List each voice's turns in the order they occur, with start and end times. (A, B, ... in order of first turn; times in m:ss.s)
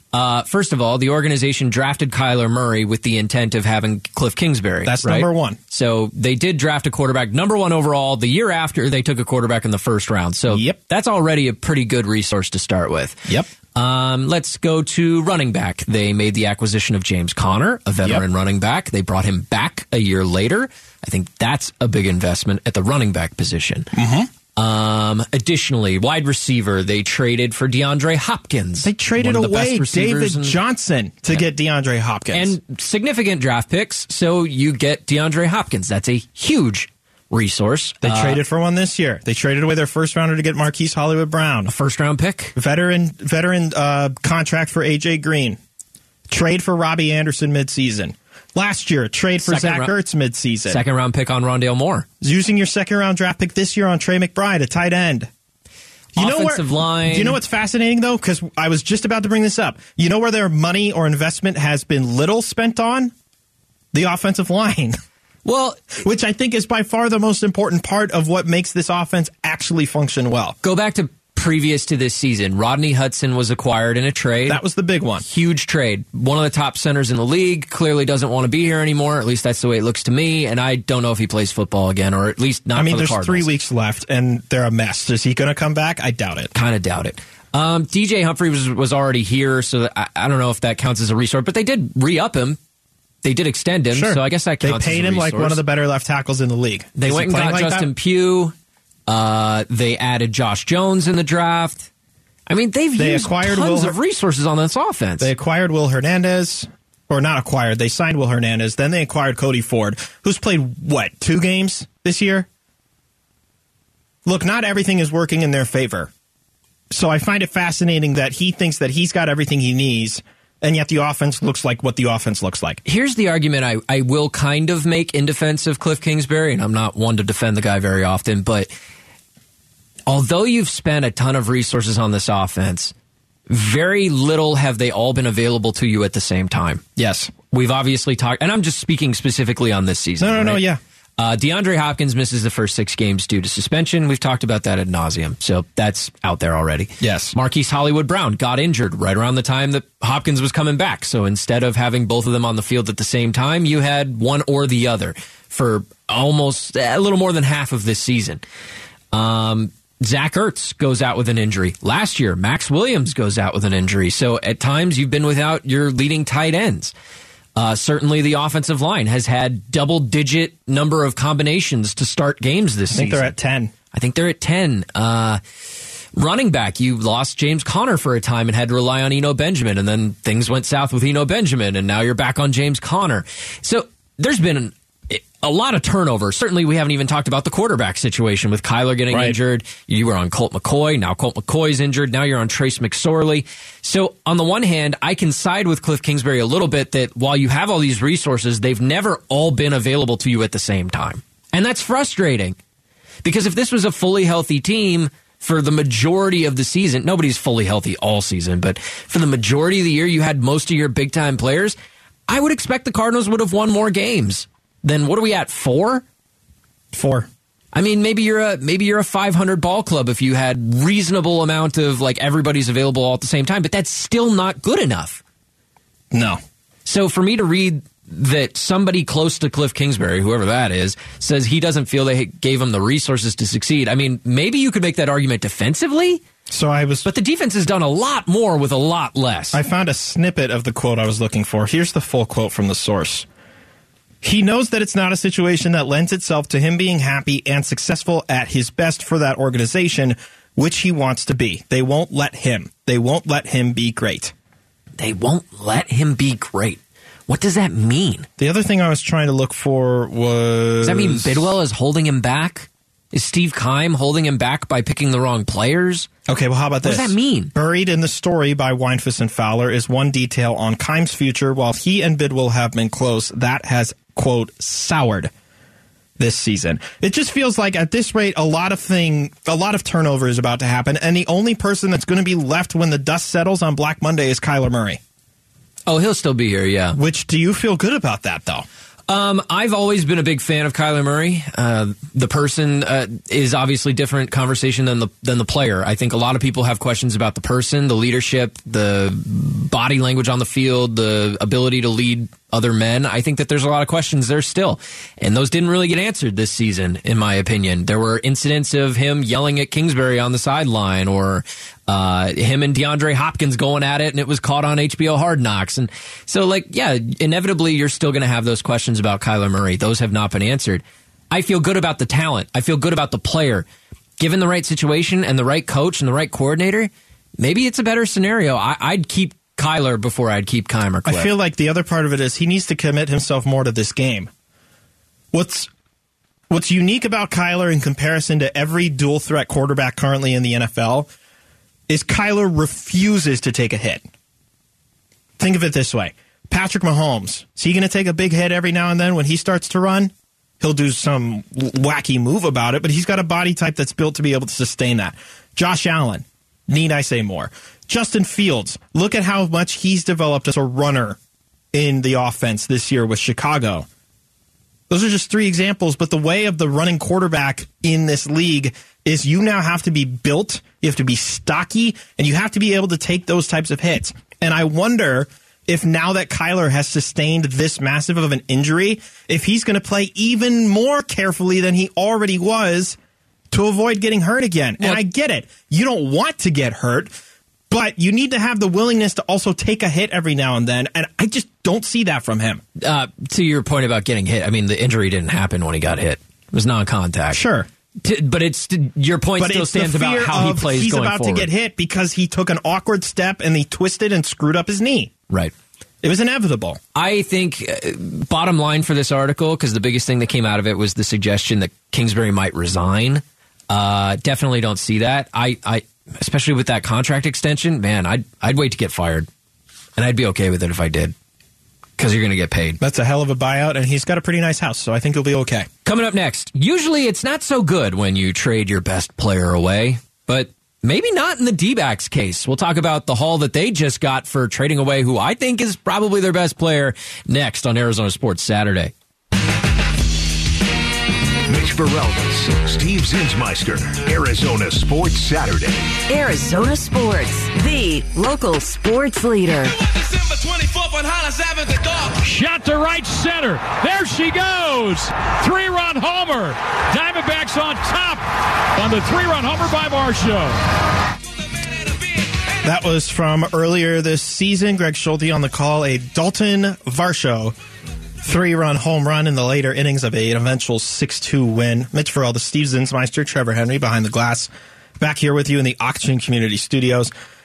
0:00.1-0:13.2 A
0:04.8-0:05.6 B
0:10.5-0:10.8 B
0:13.8-0:23.9 A
0:23.9-0:24.3 B
0:24.6-0:30.6 A
0:28.8-0:32.6 B
0:32.3-0:38.4 A
0:38.0-0:41.7 B
0:41.7-0:42.5 A
0:42.6-0:45.6 B
0:46.3-0:50.8 B
0:49.4-0:49.9 A
0:50.7-0:52.1 A
0:52.2-0:55.3 B
0:56.2-1:03.1 B
0:56.2-0:57.4 A
1:03.9-1:05.0 B
1:05.4-1:05.9 A
1:06.0-1:10.6 B
1:10.6-1:14.6 A
1:14.5-1:15.2 B
1:15.2-1:23.5 A
1:22.7-1:26.5 B
1:26.5-1:32.6 A
1:33.2-1:35.6 A
1:33.9-1:37.9 B
1:37.0-1:38.5 A
1:39.1-1:41.9 A
1:42.5-1:45.3 A
1:43.0-1:44.0 B
1:45.2-1:52.5 B
1:54.2-1:56.1 B
1:56.9-2:02.8 B
2:02.9-2:08.7 A
2:10.1-2:12.9 A
2:13.5-2:16.8 A
2:17.0-2:17.3 B
2:17.5-2:20.7 A
2:20.2-2:20.8 B
2:21.2-2:38.4 A
2:27.0-2:27.4 B
2:39.1-2:46.9 A
2:47.6-2:53.4 A
2:52.9-2:53.7 B
2:53.9-2:55.4 A
2:56.2-3:22.6 A
3:09.1-3:09.4 B
3:23.2-3:31.8 A
3:32.3-3:36.0 A
3:36.9-3:37.3 B
3:37.7-3:45.2 A
3:46.1-3:46.4 B
3:46.9-3:56.2 A
3:56.5-3:57.1 B
3:57.0-3:59.6 A
3:59.5-4:03.3 B
4:04.2-4:14.3 B
4:15.0-4:18.3 A
4:18.4-4:21.5 B
4:20.8-4:26.1 A
4:26.3-4:35.3 B
4:26.8-4:27.5 A
4:36.2-4:45.0 B
4:45.9-4:47.0 A
4:47.0-4:48.7 B
4:49.1-5:23.7 A
5:24.2-5:31.3 A
5:31.0-5:34.3 B
5:35.3-5:35.7 B
5:36.5-5:41.1 B
5:41.9-5:44.1 B
5:45.4-6:01.2 B
6:01.7-6:03.9 B
6:04.9-6:23.0 B
6:23.5-6:27.1 B
6:24.8-6:25.0 A
6:27.7-6:32.6 B
6:32.8-6:37.4 A
6:37.3-6:37.7 B
6:38.0-6:41.5 A
6:39.4-6:45.1 B
6:46.0-6:46.8 B
6:47.0-6:59.3 A
7:00.0-7:01.2 A
7:02.0-7:02.8 A
7:02.8-7:05.7 B
7:05.8-7:18.9 A
7:21.5-7:26.0 C
7:26.1-7:29.7 D
7:29.9-7:38.2 E
7:38.7-7:40.6 E
7:42.6-7:47.6 B
7:48.2-7:57.1 B